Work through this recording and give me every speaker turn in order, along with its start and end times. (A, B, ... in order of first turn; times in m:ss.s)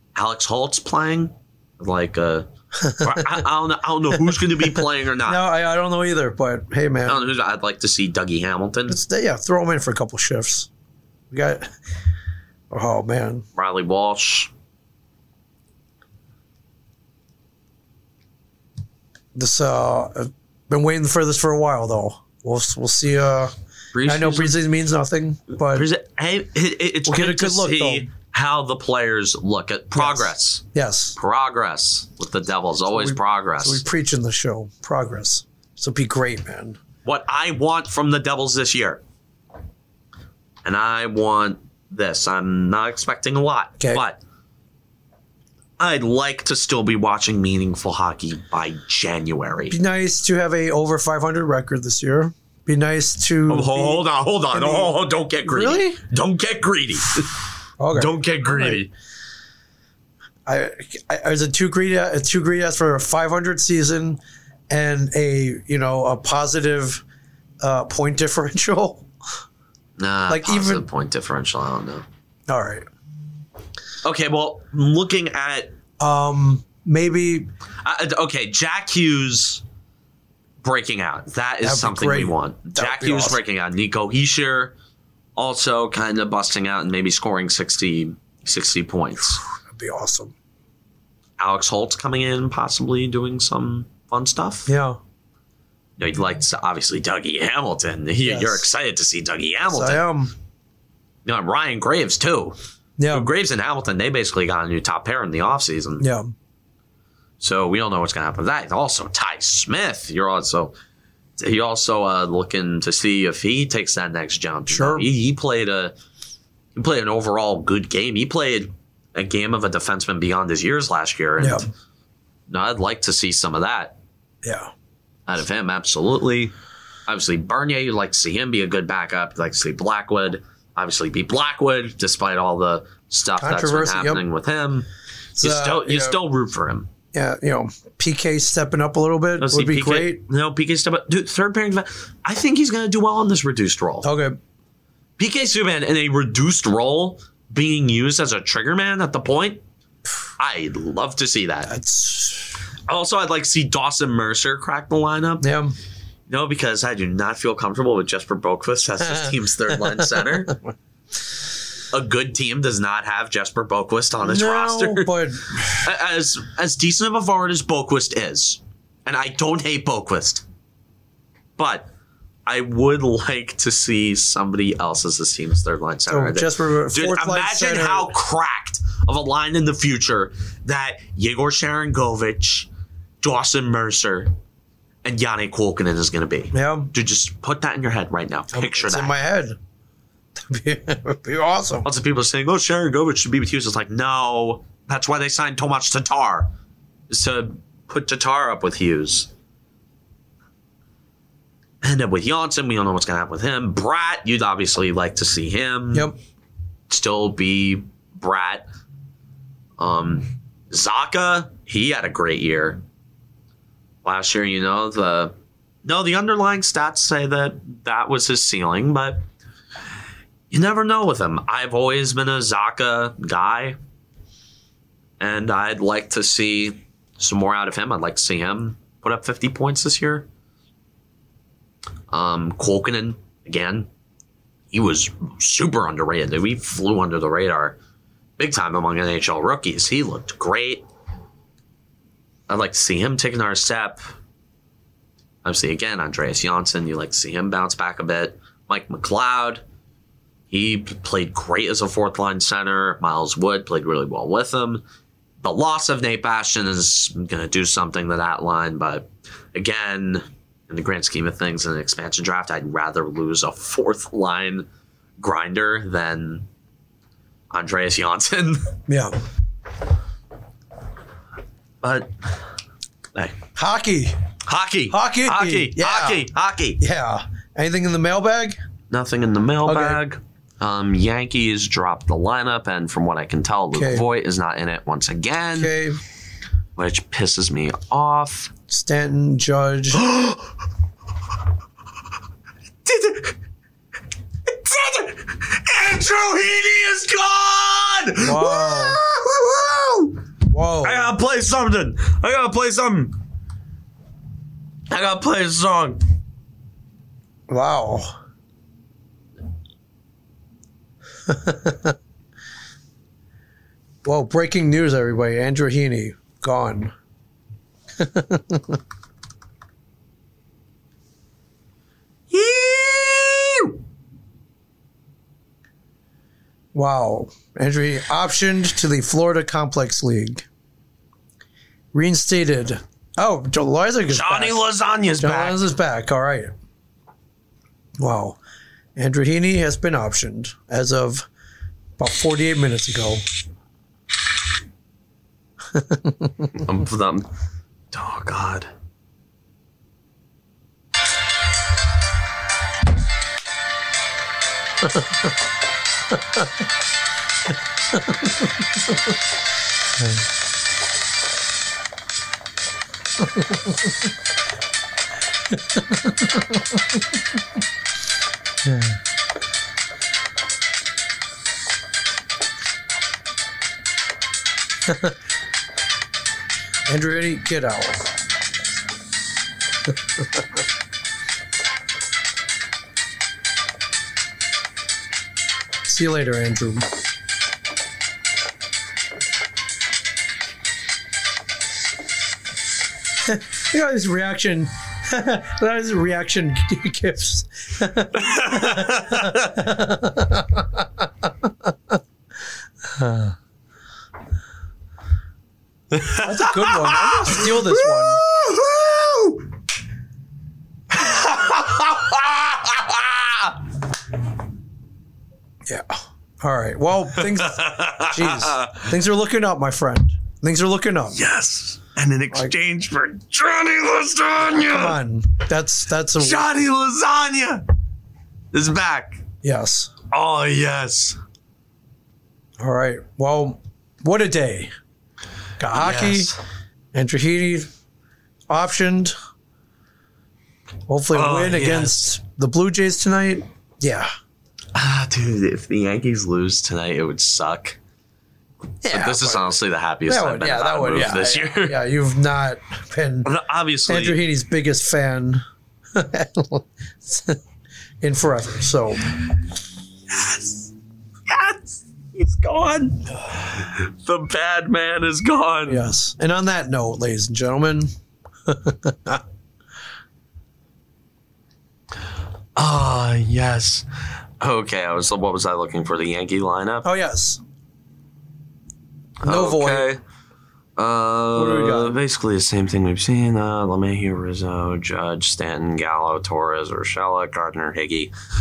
0:00.2-0:05.4 A
0:02.8-0:03.4 B
0:05.2-0:07.2 B
0:07.1-0:09.0 A
0:08.9-0:10.7 B
0:11.3-0:11.7 B
0:12.7-0:13.4 B
0:13.6-0:14.5 A
0:19.4-0:23.5 B
0:23.9-0:24.6 A
0:24.0-0:25.8 B
0:25.6-0:30.6 A
0:27.1-0:28.1 B
0:30.0-0:31.2 B
0:31.2-0:33.8 A
0:32.9-0:36.8 B
0:37.0-0:39.0 A
0:40.6-0:44.2 A
0:45.8-0:49.8 A
0:49.7-0:56.0 B
0:53.5-0:58.9 A
0:57.8-0:58.8 B
1:00.4-1:07.0 B
1:07.6-1:09.1 B
1:10.0-1:12.0 A
1:10.3-1:10.8 B
1:12.5-1:12.9 B
1:14.0-1:15.7 A
1:16.0-1:17.5 B
1:17.8-1:19.6 A
1:20.6-1:24.7 A
1:21.6-1:23.4 B
1:25.4-1:29.4 A
1:29.5-1:30.3 B
1:31.4-1:34.7 A
1:34.7-1:35.0 B
1:36.0-1:40.0 A
1:38.2-1:38.6 B
1:39.6-1:40.3 B
1:41.2-1:42.6 A
1:43.0-1:43.3 B
1:43.1-1:46.1 A
1:46.0-1:46.3 B
1:47.4-1:50.7 A
1:51.4-1:55.9 A
1:54.7-1:55.1 B
1:56.8-2:01.7 A
2:01.4-2:01.6 B
2:02.5-2:04.0 A
2:04.4-2:04.7 B
2:05.3-2:06.5 A
2:07.1-2:14.9 A
2:13.4-2:14.2 B
2:15.4-2:16.2 B
2:15.4-2:16.9 A
2:17.1-2:20.2 B
2:19.4-2:24.1 A
2:24.0-2:24.4 B
2:25.2-2:29.6 A
2:30.4-2:31.7 A
2:31.7-2:32.6 B
2:32.9-2:35.5 A
2:35.4-2:35.7 B
2:36.3-2:40.6 A
2:39.0-2:40.5 B
2:41.9-2:50.4 A
2:44.2-2:45.8 B
2:51.6-2:51.9 A
2:52.4-3:02.7 A
2:56.1-2:58.1 B
3:03.2-3:04.3 A
3:05.0-3:09.2 A
3:06.5-3:06.9 B
3:08.5-3:09.6 B
3:10.4-3:11.8 B
3:11.8-3:16.5 A
3:17.1-3:19.3 A
3:21.8-3:26.1 A
3:26.9-3:28.6 A
3:29.8-3:32.8 A
3:34.0-3:35.3 A
3:35.8-3:39.2 A
3:40.5-3:43.8 A
3:45.2-3:50.3 A
3:52.1-3:53.9 A
3:54.7-3:57.8 A
3:58.4-4:00.8 A
4:02.5-4:04.0 A
4:05.4-4:09.6 A
4:10.5-4:14.8 A
4:15.4-4:24.7 A
4:25.2-4:26.5 A
4:27.5-4:28.8 A
4:28.9-4:29.2 B
4:31.8-4:32.3 A
4:33.1-4:33.4 A
4:33.6-4:34.2 B
4:34.4-4:36.8 A
4:34.9-4:36.3 B
4:36.8-4:38.6 B
4:38.9-4:45.8 A
4:39.6-4:40.0 B
4:43.7-4:44.1 B
4:45.6-4:46.0 B
4:46.8-4:48.5 A
4:48.7-4:50.0 B
4:49.9-4:50.5 A
4:52.8-4:53.4 A
4:54.5-5:00.2 A
4:58.2-4:59.0 B
5:00.5-5:01.1 B
5:00.8-5:03.2 A
5:04.9-5:06.0 A
5:07.5-5:08.1 B
5:11.3-5:12.0 B
5:14.0-5:16.9 B
5:18.0-5:18.8 B
5:22.3-5:23.8 A
5:26.7-5:30.4 B
5:31.9-5:34.6 B
5:34.1-5:35.7 A
5:35.2-5:36.5 B
5:38.0-5:38.4 B
5:39.0-5:41.3 B
5:42.0-5:43.2 B
5:45.7-5:46.6 B
5:46.5-5:47.3 A
5:47.9-5:48.7 A
5:57.9-5:58.4 B
6:00.0-6:00.2 B
6:03.2-6:03.8 B
6:05.5-6:07.0 B
6:08.6-6:09.0 B
6:14.8-6:15.1 B
6:16.9-6:18.1 B
6:25.8-6:26.9 B
6:33.2-6:42.0 B
6:38.1-6:39.6 A
6:42.8-6:43.4 B
6:45.9-6:49.4 A
6:46.1-6:48.2 B
6:50.9-6:53.6 A
6:55.6-7:01.2 B
6:57.1-6:58.9 A
7:01.1-7:05.0 A
7:04.4-7:06.4 B
7:06.2-7:07.6 A
7:08.5-7:09.2 A
7:09.4-7:09.9 B
7:10.1-7:11.2 A
7:12.6-7:14.7 B
7:15.6-7:16.3 B
7:15.7-7:16.4 A
7:16.9-7:17.7 B
7:18.5-7:19.1 B
7:20.9-7:24.1 B
7:21.1-7:22.0 A
7:24.7-7:27.8 A
7:28.8-7:31.8 A
7:28.8-7:33.3 B
7:33.2-7:34.2 A
7:33.9-7:35.4 B
7:35.9-7:37.4 B
7:38.0-7:39.1 B
7:40.1-7:40.7 A
7:41.3-7:45.8 A
7:45.7-7:47.9 B
7:48.4-7:49.2 B
7:52.6-7:53.9 A
7:54.4-7:56.9 A
7:56.8-7:57.4 B
7:59.2-8:00.0 A
7:59.2-7:59.9 B
8:00.8-8:08.1 A
8:01.4-8:02.0 B